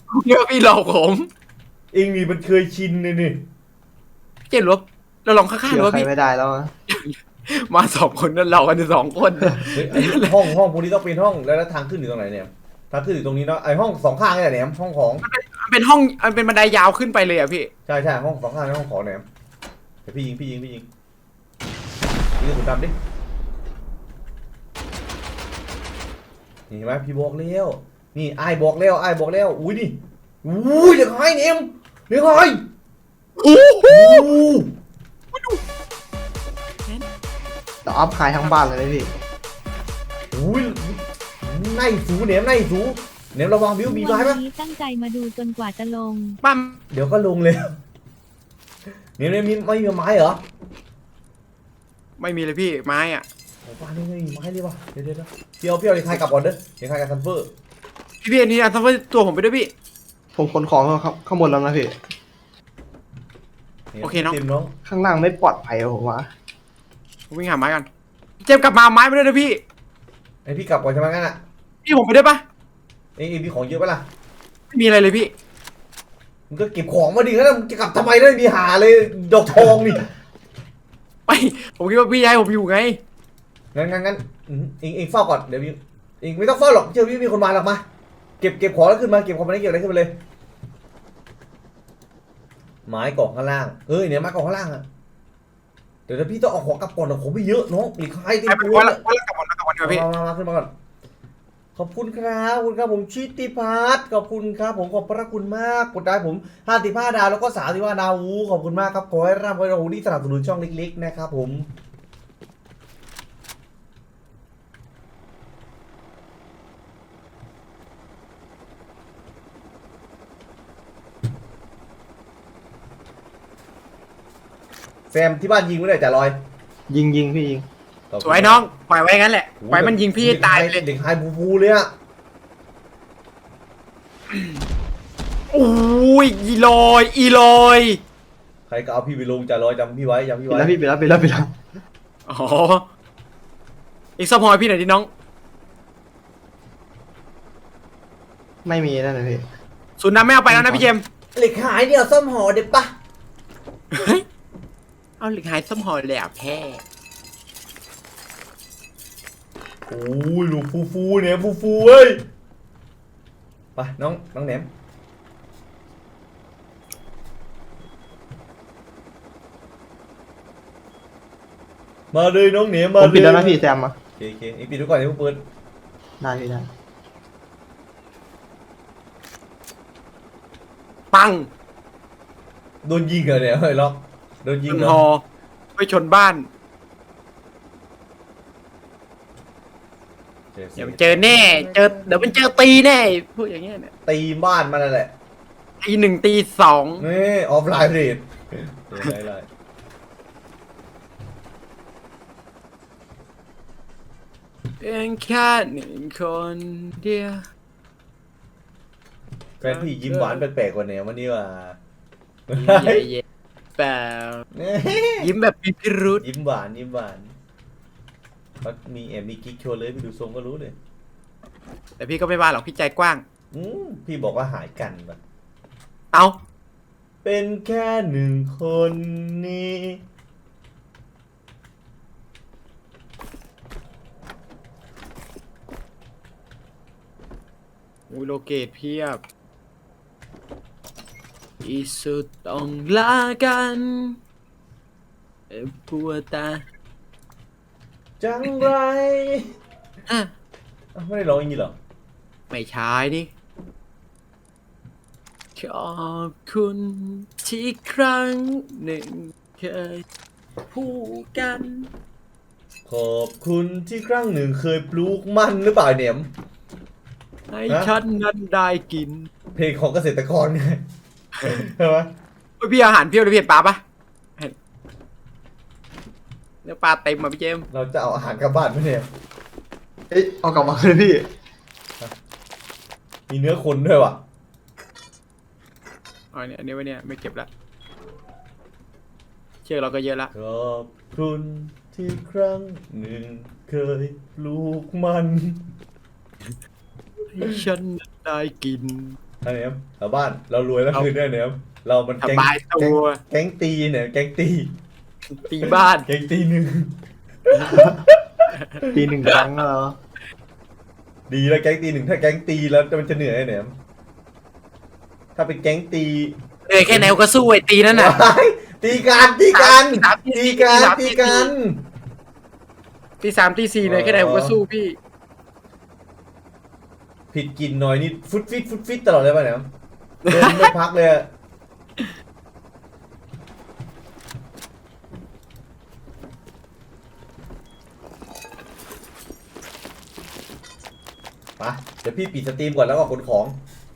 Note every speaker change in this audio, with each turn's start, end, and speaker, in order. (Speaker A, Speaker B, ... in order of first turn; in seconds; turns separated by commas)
Speaker A: 0.1-1.3, Speaker B: 1.9-3.4, Speaker A: 4.5-6.1, Speaker C: 5.7-6.7, Speaker A: 6.9-10.5, Speaker B: 9.7-15.2, Speaker A: 15.2-17.7, Speaker B: 17.9-19.2, Speaker B: 20.0-20.9, Speaker B: 22.4-22.9, Speaker B: 26.7-32.6, Speaker A: 33.4-34.3, Speaker B: 33.9-34.7, Speaker A: 35.3-35.6, Speaker C: 37.9-39.1, Speaker B: 40.3-44.4, Speaker D: 43.8-46.4, Speaker A: 46.4-46.8, Speaker B: 46.9-47.8, Speaker B: 49.2-50.4, Speaker A: 52.2-53.3, Speaker B: 53.6-57.5, Speaker A: 58.2-59.7, Speaker C: 60.3-62.0, Speaker B: 63.9-64.7, Speaker A: 64.0-64.4, Speaker C: 64.8-66.3, Speaker A: 67.3-67.9, Speaker A: 68.4-69.6, Speaker B: 70.4-71.4, Speaker A: 71.8-72.4, Speaker B: 73.2-74.0, Speaker A: 74.7-75.3, Speaker B: 76.5-80.1, Speaker A: 81.3-83.0, Speaker B: 83.7-87.8, Speaker B: 88.4-90.1, Speaker B: 92.8-94.8, Speaker B: 96.1-99.0, Speaker A: 98.5-100.0, Speaker B: 99.8-100.7, Speaker B: 101.8-111.7, Speaker B: 125.1-126.4, Speaker C: 126.9-127.7, Speaker B: 128.1-128.7, Speaker A: 128.2-130.8, Speaker B: 129.6-131.9, Speaker A: 135.5-138.0, Speaker B: 138.7-140.8, Speaker C: 140.5-141.5, Speaker A: 142.3-142.9, Speaker A: 144.2-145.1, Speaker C: 148.6-149.4, Speaker A: 150.0-151.0, Speaker C: 150.5-150.8, Speaker B: 151.3-152.9, Speaker A: 153.9-154.2, Speaker A: 155.2-156.8, Speaker B: 159.9-162.2, Speaker B: 163.8-164.7, Speaker B: 172.1-173.7, Speaker C: 173.0-173.9, Speaker B: 174.2-175.4, Speaker C: 176.2-176.7, Speaker A: 181.1-181.5, Speaker B: 182.8-185.0, Speaker A: 184.7-185.2, Speaker A: 185.8-186.5, Speaker B: 190.5-192.3, Speaker A: 190.8-193.9, Speaker B: 194.1-195.1, Speaker A: 195.8-197.1, Speaker B: 197.0-199.5, Speaker A: 204.8-207.4, Speaker A: 209.6-210.4, Speaker B: 209.6-211.8, Speaker B: 212.5-213.1, Speaker A: 212.5-213.2, Speaker A: 213.8-214.4, Speaker B: 214.5-215.3, Speaker A: 215.2-216.2, Speaker B: 216.2-217.3, Speaker B: 218.6-220.8, Speaker A: 222.0-223.2, Speaker B: 223.5-225.2, Speaker A: 226.1-226.4, Speaker B: 227.2-230.0, Speaker A: 238.1-239.2, Speaker A: 241.6-244.2, Speaker A: 245.5-246.6, Speaker B: 248.2-249.5, Speaker A: 250.1-250.3, Speaker B: 250.9-251.8, Speaker A: 252.5-253.3, Speaker A: 255.6-260.0, Speaker A: 260.7-261.9, Speaker B: 262.9-266.3, Speaker A: 267.5-269.3, Speaker B: 267.7-267.9, Speaker B: 269.5-270.8, Speaker B: 271.4-272.1, Speaker A: 272.6-273.8, Speaker A: 276.6-277.7, Speaker B: 277.7-279.1, Speaker C: 280.1-281.3, Speaker B: 283.3-284.2, Speaker A: 286.3-287.5, Speaker A: 289.6-290.3, Speaker B: 290.3-295.6, Speaker A: 297.3-299.2, Speaker B: 299.4-304.7, Speaker A: 302.2-303.2, Speaker A: 305.3-306.1, Speaker B: 305.7-306.9, Speaker B: 307.4-308.4, Speaker A: 308.5-309.4, Speaker C: 308.8-309.9, Speaker B: 311.3-313.7, Speaker B: 315.4-317.2, Speaker A: 316.7-318.2, Speaker B: 317.9-321.8, Speaker A: 319.5-321.5, Speaker A: 323.2-325.0, Speaker B: 323.8-324.6, Speaker B: 327.3-329.7, Speaker B: 330.3-331.3, Speaker A: 330.3-330.7, Speaker B: 341.6-343.6